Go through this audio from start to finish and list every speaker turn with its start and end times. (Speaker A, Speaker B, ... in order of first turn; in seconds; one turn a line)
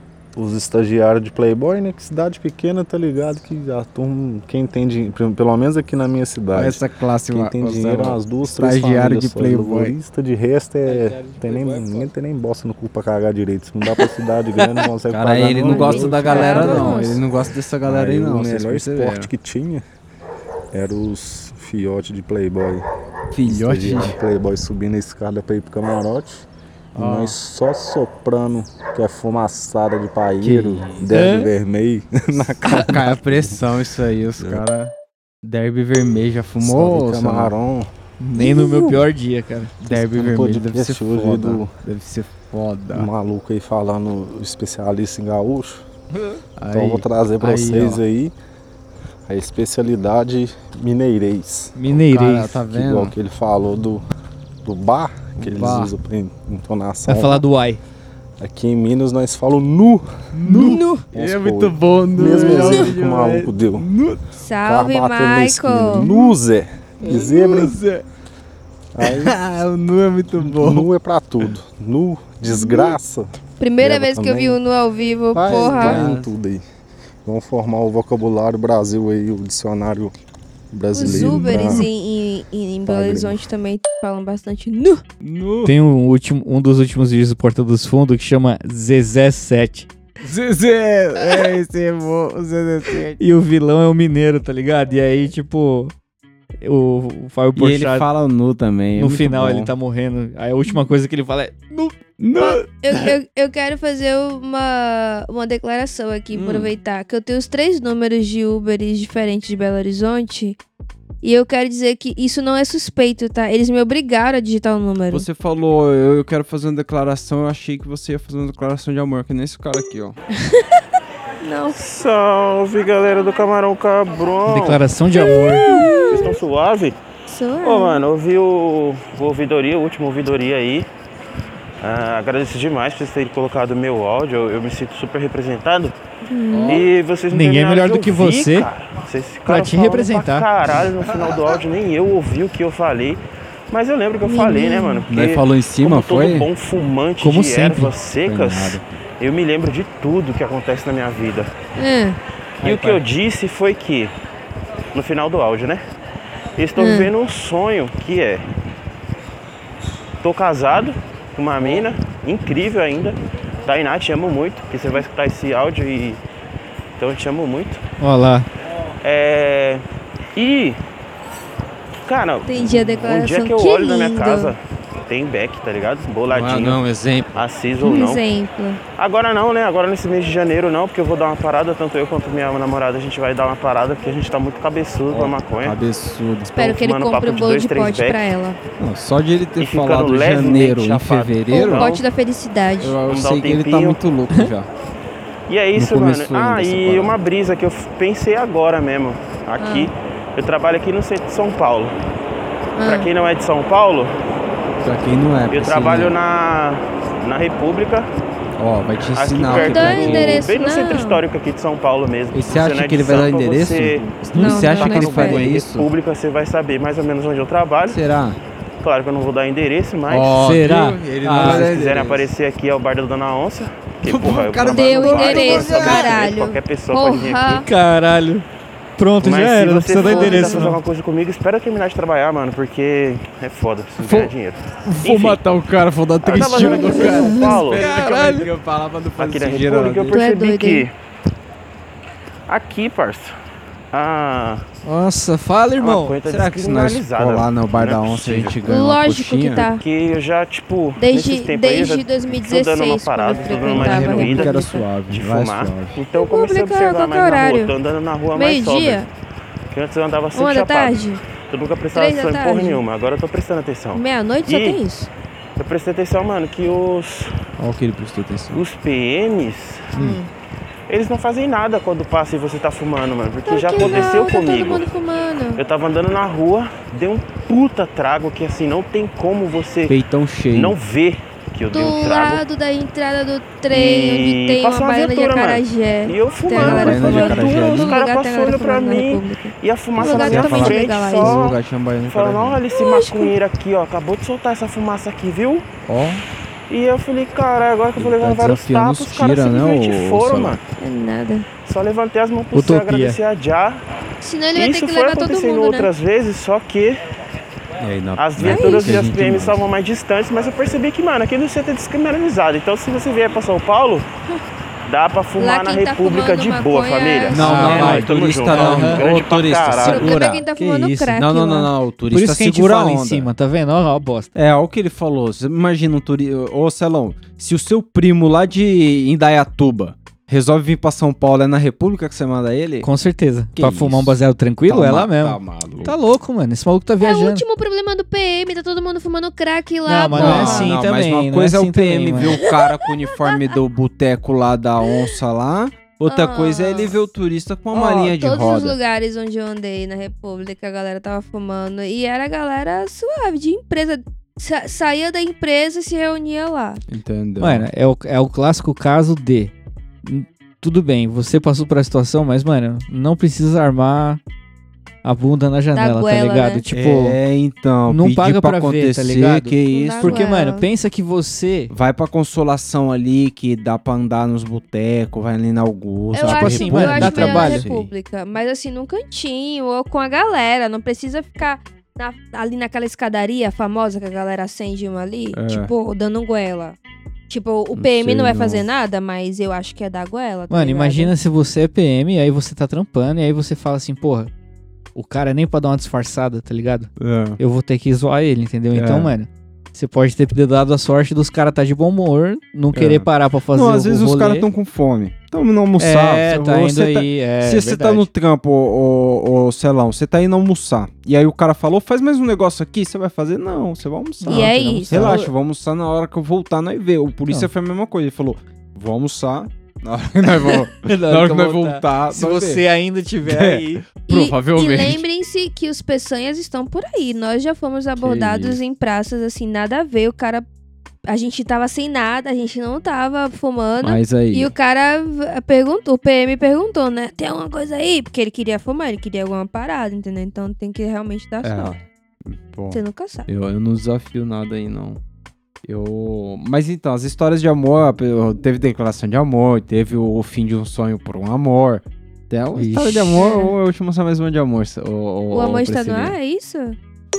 Speaker A: 0.3-17.1
Speaker B: 6.5-9.9
Speaker B: 10.9-12.0
Speaker B: 15.1-19.3
Speaker C: 16.0-17.2
Speaker A: 17.8-19.8
Speaker A: 20.7-22.8
Speaker B: 23.3-24.2
Speaker A: 23.4-33.6
Speaker B: 27.0-27.4
Speaker B: 30.4-31.1
Speaker D: 31.1-31.5
Speaker B: 32.8-34.9
Speaker A: 34.4-34.6
Speaker B: 35.4-37.7
Speaker A: 36.6-37.9
Speaker D: 38.2-39.8
Speaker C: 38.4-39.0
Speaker B: 39.8-43.1
Speaker A: 39.9-41.7
Speaker A: 42.9-45.8
Speaker B: 46.6-48.0
Speaker A: 46.7-48.3
Speaker A: 49.3-54.0
Speaker D: 51.8-52.6
Speaker B: 52.1-53.2
Speaker A: 54.6-57.4
Speaker B: 55.4-55.9
Speaker D: 57.1-57.8
Speaker A: 58.4-60.3
Speaker B: 60.3-64.2
Speaker D: 60.5-61.0
Speaker A: 61.1-63.9
Speaker C: 64.4-66.2
Speaker A: 64.6-67.8
Speaker B: 67.1-68.0
Speaker A: 68.9-69.4
Speaker B: 69.0-70.9
Speaker A: 70.4-73.3
Speaker C: 72.5-73.0
Speaker C: 73.6-76.0
Speaker A: 73.8-74.6
Speaker A: 75.3-76.6
Speaker B: 75.5-76.3
Speaker A: 77.2-80.1
Speaker A: 80.7-81.9
Speaker C: 80.9-85.0
Speaker B: 81.0-81.6
Speaker A: 82.9-83.4
Speaker B: 85.2-85.7
Speaker D: 85.6-89.9
Speaker B: 90.2-93.2
Speaker D: 93.2-95.9
Speaker D: 96.6-98.1
Speaker B: 97.6-99.7
Speaker D: 99.0-102.0
Speaker B: 102.2-103.1
Speaker C: 102.4-110.6
Speaker B: 106.3-106.8
Speaker C: 111.2-115.3
Speaker B: 115.1-120.2
Speaker C: 121.4-121.8
Speaker E: 121.8-124.8
Speaker D: 124.5-125.8
Speaker C: 125.1-126.4
Speaker E: 126.1-127.0
Speaker C: 127.3-128.1
Speaker E: 127.6-130.9
Speaker E: 131.8-135.9
Speaker C: 136.3-136.8
Speaker B: 136.5-136.8
Speaker E: 136.7-151.5
Speaker D: 137.3-138.7
Speaker D: 139.5-140.5
Speaker C: 144.2-145.1
Speaker B: 145.1-146.5
Speaker D: 147.2-147.9
Speaker B: 148.2-148.8
Speaker C: 151.8-152.2
Speaker B: 152.6-153.0
Speaker E: 152.6-154.1
Speaker E: 154.9-155.8
Speaker E: 156.6-158.4
Speaker C: 156.8-157.1
Speaker E: 160.2-166.2
Speaker E: 167.0-167.8
Speaker D: 168.0-168.5
Speaker E: 169.0-169.8
Speaker E: 170.3-170.8
Speaker E: 172.1-176.8
Speaker C: 172.5-174.5
Speaker B: 176.3-177.3
Speaker E: 177.3-178.2
Speaker C: 177.8-178.8
Speaker E: 179.0-185.8
Speaker B: 185.1-186.5
Speaker E: 186.5-188.3
Speaker C: 186.6-188.6
Speaker B: 188.8-191.9
Speaker E: 189.6-192.0
Speaker C: 191.5-193.0
Speaker B: 192.8-194.7
Speaker E: 193.1-194.0
Speaker E: 195.5-201.9
Speaker B: 195.7-197.2
Speaker C: 199.6-199.9
Speaker C: 202.8-203.1
Speaker E: 202.8-204.1
Speaker B: 204.8-206.2
Speaker E: 205.5-208.1
Speaker B: 208.6-210.5
Speaker E: 209.1-214.1
Speaker C: 209.4-211.2
Speaker B: 212.3-215.9
Speaker C: 214.3-215.5
Speaker D: 214.3-214.7
Speaker E: 214.7-218.0
Speaker B: 217.9-218.4
Speaker E: 218.8-220.4
Speaker B: 220.1-222.3
Speaker D: 220.3-221.7
Speaker E: 221.3-227.7
Speaker B: 224.1-226.2
Speaker C: 224.7-227.7
Speaker D: 227.7-228.4
Speaker D: 229.0-230.8
Speaker E: 229.2-235.4
Speaker C: 230.0-230.7
Speaker B: 234.0-234.3
Speaker B: 234.8-240.2
Speaker E: 236.2-237.9
Speaker C: 236.7-237.5
Speaker D: 237.7-238.5
Speaker E: 239.2-240.9
Speaker C: 240.1-240.8
Speaker E: 242.5-243.3
Speaker E: 243.9-244.7
Speaker D: 244.8-246.2
Speaker E: 245.8-248.6
Speaker B: 246.3-249.7
Speaker C: 248.7-249.8
Speaker E: 249.8-259.0
Speaker C: 251.0-254.8
Speaker B: 253.5-255.9
Speaker C: 256.2-257.7
Speaker C: 258.4-259.1
Speaker E: 259.7-264.8
Speaker C: 260.4-261.2
Speaker C: 261.9-262.8
Speaker C: 263.9-265.1
Speaker E: 265.6-267.3
Speaker B: 267.6-268.6
Speaker E: 268.5-270.0
Speaker C: 270.0-270.3
Speaker E: 270.9-274.9
Speaker C: 273.5-275.6
Speaker B: 273.8-274.1
Speaker E: 275.6-280.0
Speaker B: 279.9-280.8
Speaker E: 280.5-282.4
Speaker C: 281.7-291.5
Speaker E: 283.7-295.7
Speaker B: 286.6-288.0
Speaker B: 290.0-292.6
Speaker C: 292.7-293.3
Speaker B: 295.9-296.2
Speaker E: 296.7-300.6
Speaker B: 298.0-300.6
Speaker C: 300.8-301.5
Speaker E: 301.6-303.8
Speaker D: 302.5-303.2
Speaker C: 304.2-305.9
Speaker E: 304.6-307.0
Speaker B: 307.8-309.6
Speaker E: 308.2-314.1
Speaker C: 308.4-309.1
Speaker E: 314.9-320.1
Speaker C: 315.4-317.7
Speaker B: 317.3-320.5
Speaker D: 317.4-319.0
Speaker C: 319.8-321.7
Speaker D: 320.6-321.1
Speaker B: 321.1-323.3
Speaker D: 322.1-324.3
Speaker B: 324.4-332.9
Speaker D: 332.8-337.4
Speaker B: 333.6-336.0
Speaker C: 337.0-340.7
Speaker D: 339.9-342.4
Speaker B: 340.1-348.8
Speaker C: 346.1-346.9
Speaker C: 347.7-356.8
Speaker B: 356.9-357.7
Speaker D: 357.4-359.5
Speaker D: 360.0-364.2
Speaker D: 365.0-367.2
Speaker C: 365.7-366.6
Speaker B: 366.7-370.2
Speaker D: 367.9-371.7
Speaker C: 369.7-370.7
Speaker B: 371.7-377.9
Speaker C: 376.1-386.8
Speaker D: 376.2-377.7
Speaker B: 385.3-385.7
Speaker C: 387.3-391.1
Speaker B: 387.8-388.7
Speaker D: 390.5-394.3
Speaker D: 395.0-404.5
Speaker B: 397.0-397.4
Speaker B: 398.7-399.1
Speaker B: 402.7-422.6
Speaker D: 405.8-408.1
Speaker D: 414.2-415.3
Speaker C: 414.3-415.2
Speaker D: 420.9-423.9
Speaker B: 423.2-425.0
Speaker C: 424.1-430.4
Speaker B: 428.0-428.6
Speaker C: 431.1-441.8
Speaker B: 433.8-434.5
Speaker B: 441.4-445.0
Speaker C: 442.7-443.3
Speaker B: 445.6-456.1
Speaker D: 452.6-453.2
Speaker C: 453.2-453.5
Speaker C: 455.3-456.8